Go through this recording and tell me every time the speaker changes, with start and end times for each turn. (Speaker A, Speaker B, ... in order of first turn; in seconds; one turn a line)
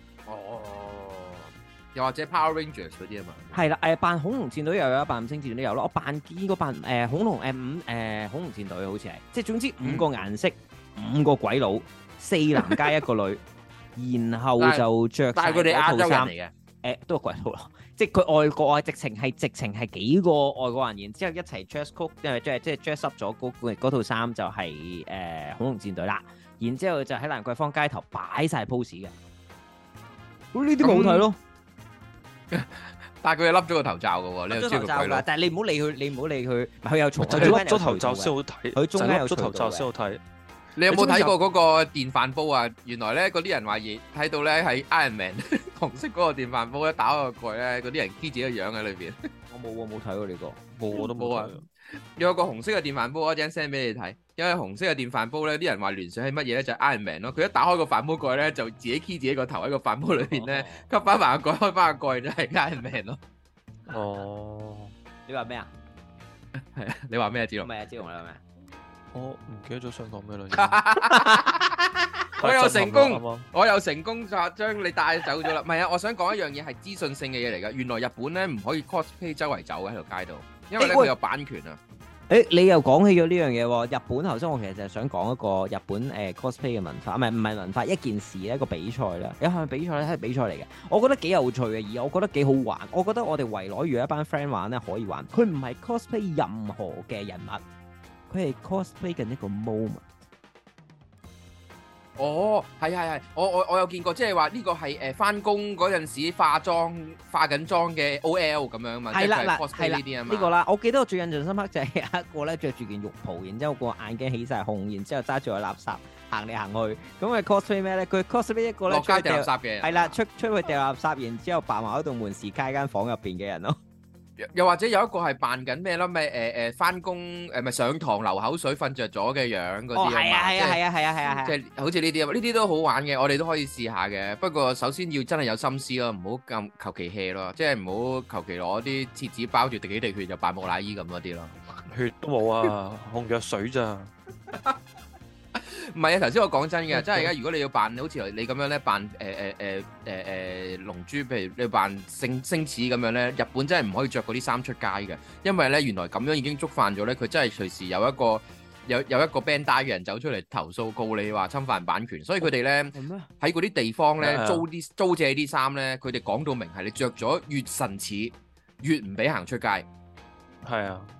Speaker A: 0.3-3.6
Speaker B: 3.5-13.4
Speaker B: 13.9-16.3
Speaker A: 14.6-16.5
Speaker B: 16.8-29.1
Speaker B: 30.5-31.4
Speaker A: 30.8-31.3
Speaker A: 32.5-35.2
Speaker B: 34.5-39.9
Speaker C: 37.2-40.2
Speaker A: 40.8-49.2
Speaker B: 40.9-41.3
Speaker C: 41.0-41.2
Speaker B: 49.5-50.6
Speaker C: 50.7-51.6
Speaker A: 51.0-51.6
Speaker A: 52.1-63.2
Speaker B: 60.2-60.9
Speaker C: 63.9-64.9
Speaker B: 65.3-65.7
Speaker A: 66.6-67.7
Speaker B: 67.6-68.4
Speaker C: 69.1-70.8
Speaker A: 70.6-81.8
Speaker C: 72.4-73.5
Speaker B: 80.8-81.1
Speaker B: 82.3-97.6
Speaker B: 98.3-100.0
Speaker A: 102.2-110.5
Speaker B: 109.1-123.8
Speaker A: 118.9-120.2
Speaker A: 124.4-130.8
Speaker B: 129.9-131.5
Speaker A: 131.4-141.6
Speaker C: 141.9-144.1
Speaker A: 145.6-169.9
Speaker C: 146.9-147.3
Speaker B: 162.9-163.3
Speaker C: 164.2-164.6
Speaker C: 170.6-171.1